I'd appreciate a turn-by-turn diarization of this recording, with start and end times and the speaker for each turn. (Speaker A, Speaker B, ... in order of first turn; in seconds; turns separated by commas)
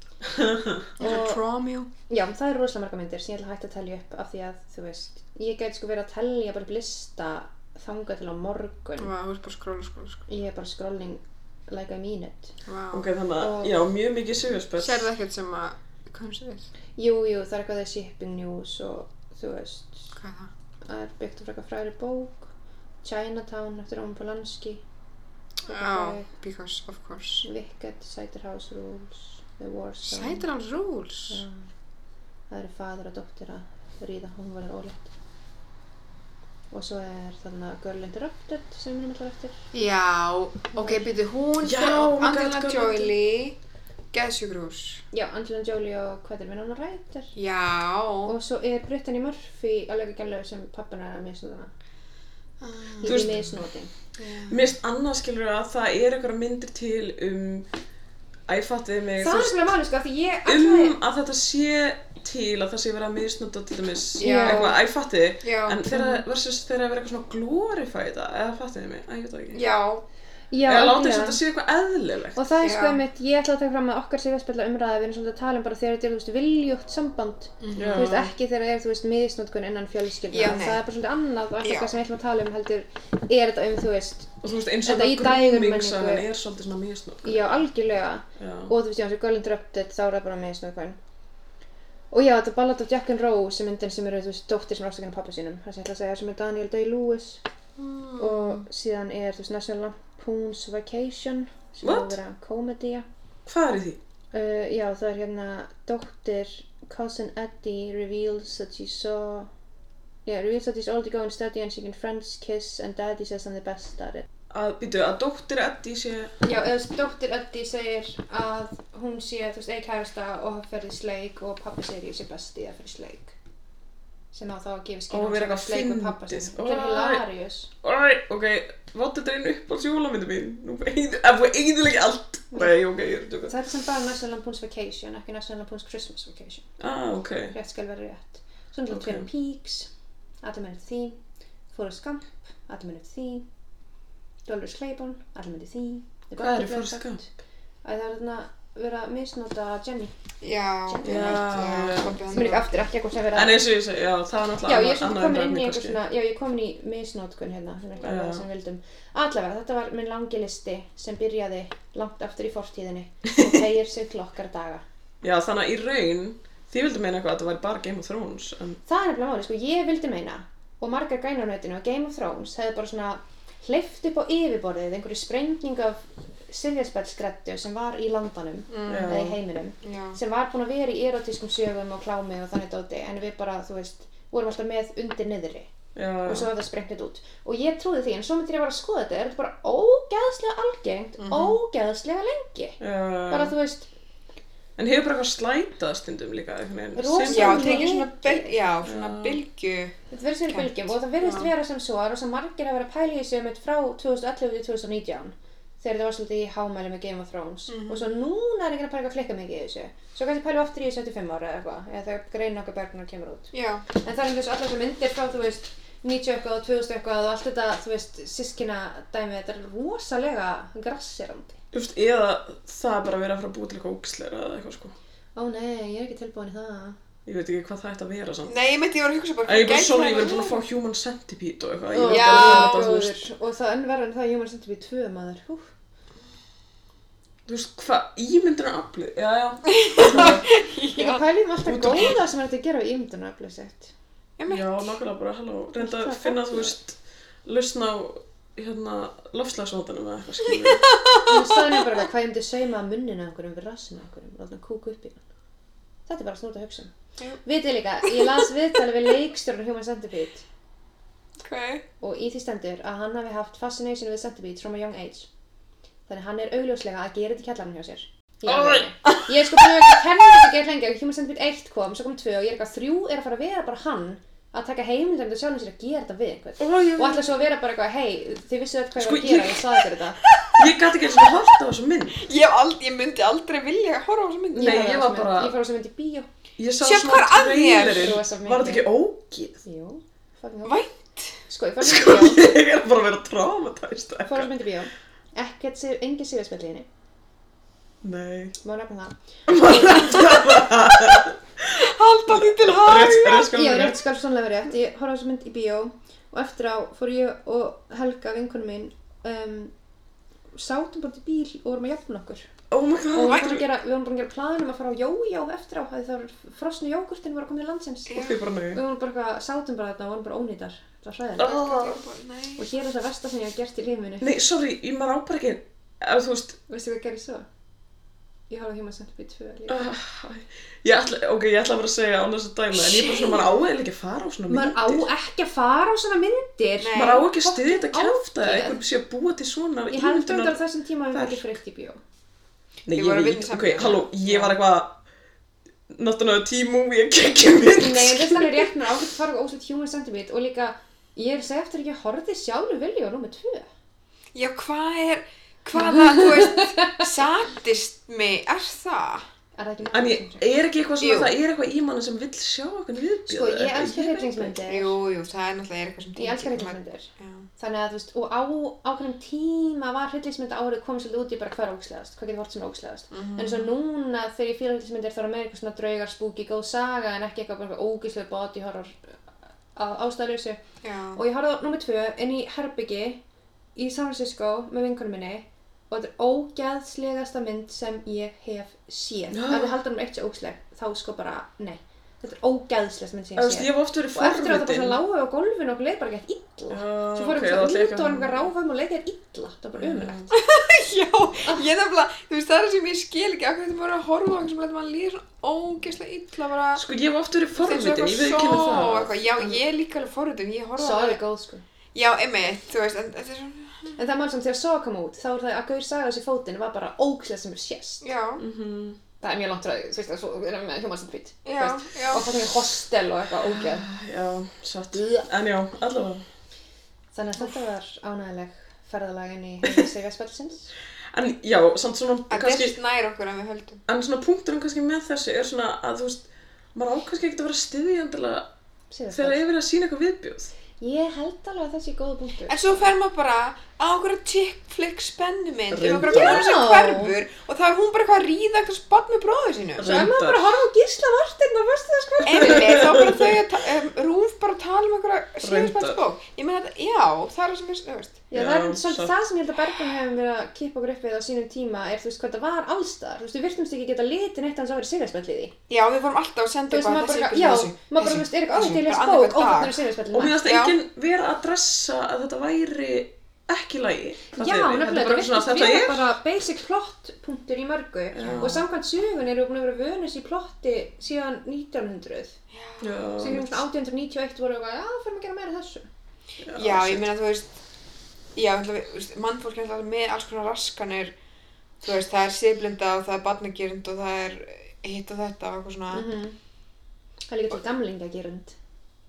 Speaker A: 0.3-0.8, Speaker B: 1.0-1.4, Speaker C: 1.0-1.9, Speaker B: 2.1-9.1, Speaker C: 9.0-10.2, Speaker B: 10.3-12.5, Speaker C: 12.6-13.1, Speaker A: 12.9-15.1, Speaker B: 13.4-13.7, Speaker C: 14.8-16.7, Speaker B: 17.0-20.1, Speaker C: 20.1-20.5, Speaker B: 20.9-22.5, Speaker B: 23.0-24.8, Speaker C: 25.7-27.5, Speaker B: 25.7-26.3, Speaker B: 27.4-30.4, Speaker C: 30.0-31.4, Speaker B: 31.3-31.6, Speaker B: 32.5-35.1, Speaker B: 36.7-39.6, Speaker C: 39.7-43.6, Speaker B: 40.8-41.0, Speaker A: 41.6-43.1, Speaker C: 44.1-45.0, Speaker B: 45.1-47.3, Speaker C: 47.3-48.3, Speaker B: 48.2-51.7, Speaker C: 52.6-53.2, Speaker B: 53.0-53.9, Speaker A: 53.0-53.5, Speaker C: 54.2-54.7, Speaker A: 54.5-57.7, Speaker A: 58.5-59.6, Speaker B: 59.2-61.0, Speaker A: 60.5-69.6, Speaker C: 64.2-64.7, Speaker B: 64.2-64.8, Speaker C: 65.4-65.8, Speaker B: 65.9-66.2, Speaker C: 69.5-70.0, Speaker B: 70.5-71.4, Speaker A: 70.6-72.4, Speaker B: 72.3-86.2, Speaker C: 72.6-73.0, Speaker C: 77.6-78.1, Speaker A: 77.8-78.3, Speaker C: 80.3-80.8, Speaker C: 81.6-82.0, Speaker A: 84.4-87.6, Speaker B: 87.2-91.0, Speaker A: 88.4-88.7, Speaker B: 92.1-97.4, Speaker C: 97.8-98.6, Speaker B: 98.2-103.0, Speaker A: 101.8-102.2, Speaker A: 103.5-104.0, Speaker B: 104.3-109.5, Speaker B: 110.2-114.3, Speaker A: 114.5-116.3, Speaker B: 116.4-123.3, Speaker B: 124.3-127.7, Speaker A: 125.1-127.2, Speaker A: 127.8-133.5, Speaker B: 133.5-136.7, Speaker A: 136.8-137.6, Speaker B: 137.5-139.9, Speaker A: 138.9-139.3, Speaker B: 140.4-141.2, Speaker B: 141.7-143.5, Speaker B: 144.4-147.3, Speaker A: 146.4-147.2, Speaker B: 147.8-150.1, Speaker C: 150.4-152.7, Speaker B: 150.9-153.7, Speaker A: 151.0-152.2, Speaker A: 153.3-156.0, Speaker B: 154.6-164.8, Speaker A: 158.0-158.4, Speaker A: 165.2-168.8, Speaker B: 168.8-185.7, Speaker C: 178.7-179.2, Speaker A: 178.9-179.4, Speaker C: 179.8-180.2, Speaker A: 185.9-186.5, Speaker B: 186.2-193.9, Speaker C: 191.2-191.6, Speaker A: 192.8-193.6, Speaker A: 194.8-197.9, Speaker B: 196.9-198.6, Speaker C: 197.3-201.5, Speaker A: 198.8-199.4, Speaker B: 200.1-221.6, Speaker C: 207.7-208.1, Speaker C: 213.5-213.8, Speaker A: 221.7-224.9, Speaker B: 225.3-227.0, Speaker A: 227.2-228.5, Speaker C: 228.5-230.6, Speaker A: 229.4-233.3, Speaker B: 231.9-235.7, Speaker C: 232.0-232.8, Speaker A: 237.4-240.5, Speaker C: 239.7-241.2, Speaker B: 240.9-243.9, Speaker A: 241.7-242.2, Speaker C: 244.4-244.8, Speaker A: 244.5-250.9, Speaker B: 245.8-246.7, Speaker C: 250.8-251.8, Speaker B: 251.2-255.2, Speaker B: 256.1-256.9, Speaker B: 257.4-260.4, Speaker C: 261.4-261.8, Speaker B: 262.0-265.3, Speaker B: 266.1-280.2, Speaker A: 268.4-268.9, Speaker A: 276.6-277.4, Speaker A: 278.9-279.7, Speaker C: 280.2-281.2, Speaker A: 280.5-282.2, Speaker C: 282.2-284.9, Speaker B: 284.5-286.3, Speaker A: 284.6-285.6, Speaker A: 286.6-289.6, Speaker C: 286.8-288.2, Speaker B: 287.8-288.9, Speaker B: 289.6-290.8, Speaker C: 290.6-291.4, Speaker B: 291.5-292.5, Speaker A: 291.8-294.5, Speaker B: 294.3-296.9, Speaker A: 298.0-298.6, Speaker B: 298.6-299.8, Speaker A: 299.5-301.4, Speaker C: 299.9-300.2, Speaker C: 301.7-303.5, Speaker A: 302.3-304.0, Speaker B: 303.4-309.7, Speaker B: 310.5-312.5, Speaker A: 312.7-313.7, Speaker B: 313.1-321.7, Speaker C: 313.2-313.5, Speaker C: 318.1-318.4, Speaker A: 318.1-318.8, Speaker A: 321.4-322.0, Speaker C: 321.5-322.7, Speaker B: 322.6-324.3, Speaker A: 324.2-326.6, Speaker B: 326.7-327.4, Speaker B: 328.5-329.9, Speaker A: 329.7-335.1, Speaker C: 332.7-333.4, Speaker B: 334.5-338.8, Speaker C: 336.8-337.2, Speaker A: 336.9-340.6, Speaker B: 339.9-342.0, Speaker A: 341.1-341.6, Speaker A: 342.9-345.0, Speaker C: 342.9-344.5, Speaker A: 345.9-348.7, Speaker B: 347.7-353.7, Speaker C: 354.3-359.2, Speaker B: 356.7-357.1, Speaker B: 359.6-360.5, Speaker A: 359.9-364.6, Speaker C: 361.0-361.3, Speaker B: 363.3-365.0, Speaker C: 364.6-367.5, Speaker B: 366.2-379.1, Speaker C: 373.1-373.7, Speaker B: 379.8-380.6, Speaker C: 380.8-381.2, Speaker B: 381.1-383.2, Speaker B: 383.8-400.3, Speaker A: 389.3-389.8, Speaker A: 393.4-395.0, Speaker A: 396.7-398.5, Speaker A: 399.8-400.3, Speaker C: 400.3-406.8, Speaker A: 406.8-409.6, Speaker C: 407.5-411.2, Speaker B: 410.8-411.6, Speaker C: 411.9-414.0, Speaker B: 414.0-418.1, Speaker C: 418.0-418.4, Speaker A: 418.4-419.0, Speaker B: 419.2-423.9, Speaker C: 421.4-422.3, Speaker A: 423.4-426.2, Speaker B: 424.9-425.2, Speaker B: 427.1-430.7, Speaker A: 431.1-432.8, Speaker C: 432.3-433.8, Speaker A: 433.9-438.5, Speaker B: 438.9-439.4, Speaker A: 439.1-440.5, Speaker B: 440.8-442.8, Speaker C: 442.5-449.9, Speaker A: 445.7-446.5, Speaker B: 446.0-447.2, Speaker A: 449.8-450.5, Speaker B: 449.8-452.8, Speaker C: 452.2-458.2, Speaker A: 452.4-453.4, Speaker A: 455.4-456.0, Speaker B: 458.3-465.6, Speaker A: 458.3-459.1, Speaker C: 465.7-469.8, Speaker B: 466.7-470.4, Speaker A: 470.1-476.1, Speaker C: 470.4-470.8, Speaker B: 474.3-482.4, Speaker A: 478.1-478.6, Speaker C: 482.5-483.1, Speaker A: 482.8-483.6, Speaker B: 483.2-485.9, Speaker A: 486.4-487.0, Speaker C: 486.5-487.6, Speaker C: 488.3-491.1, Speaker C: 491.8-496.1, Speaker B: 495.9-496.4, Speaker B: 497.3-498.6